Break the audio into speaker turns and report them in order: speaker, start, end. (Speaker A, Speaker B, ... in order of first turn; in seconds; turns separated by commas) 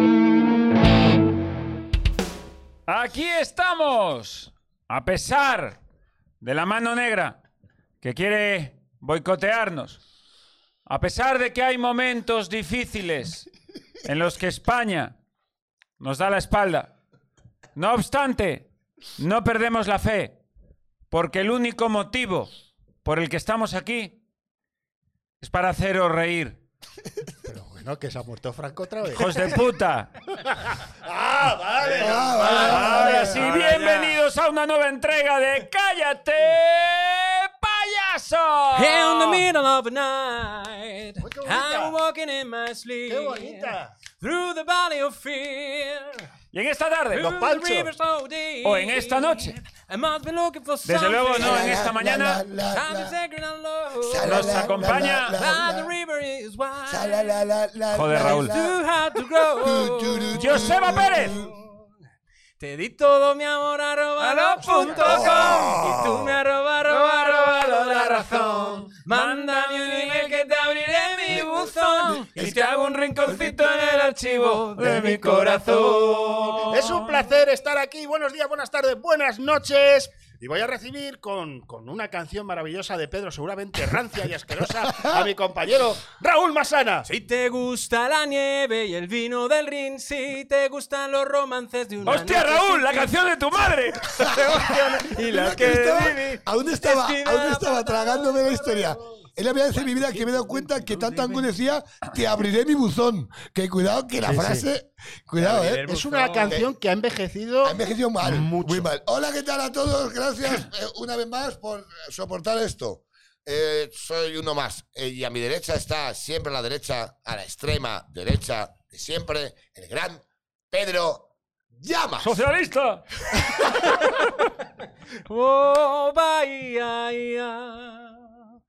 Speaker A: 2.9-5.8, Speaker A: 6.4-7.4, Speaker A: 8.0-10.0, Speaker A: 10.9-13.5, Speaker A: 14.1-15.2, Speaker A: 16.0-16.9, Speaker A: 17.8-18.7, Speaker A: 19.2-20.4, Speaker A: 21.1-22.5, Speaker A: 23.0-24.2, Speaker A: 25.4-26.6, Speaker B: 27.4-29.3, Speaker A: 29.1-30.1, Speaker B: 31.0-33.4, Speaker C: 31.8-34.2, Speaker D: 32.0-33.3, Speaker A: 32.5-39.5, Speaker C: 38.8-46.3, Speaker B: 41.2-42.0, Speaker B: 43.1-43.9, Speaker A: 46.5-47.4, Speaker C: 47.1-51.9, Speaker B: 47.1-47.9, Speaker A: 48.6-49.5, Speaker A: 50.9-52.4, Speaker D: 51.4-53.2, Speaker C: 52.7-57.4, Speaker D: 54.0-55.9, Speaker A: 54.2-55.4, Speaker D: 56.9-58.8, Speaker A: 57.9-58.5, Speaker C: 58.1-61.7, Speaker D: 59.4-61.5, Speaker A: 60.3-61.4, Speaker C: 62.6-76.7, Speaker A: 64.2-65.9, Speaker B: 64.7-65.0, Speaker D: 65.0-66.1, Speaker A: 66.9-70.3, Speaker A: 71.3-77.2, Speaker D: 72.0-72.6, Speaker B: 76.7-87.1, Speaker D: 84.9-85.2, Speaker C: 87.0-93.2, Speaker A: 92.0-94.4, Speaker C: 94.0-99.2, Speaker D: 94.5-105.9, Speaker C: 99.7-101.4, Speaker B: 104.2-104.7, Speaker C: 105.4-106.6, Speaker B: 105.8-108.9, Speaker D: 107.6-122.5, Speaker A: 122.2-123.1, Speaker C: 123.6-124.3, Speaker C: 125.3-128.4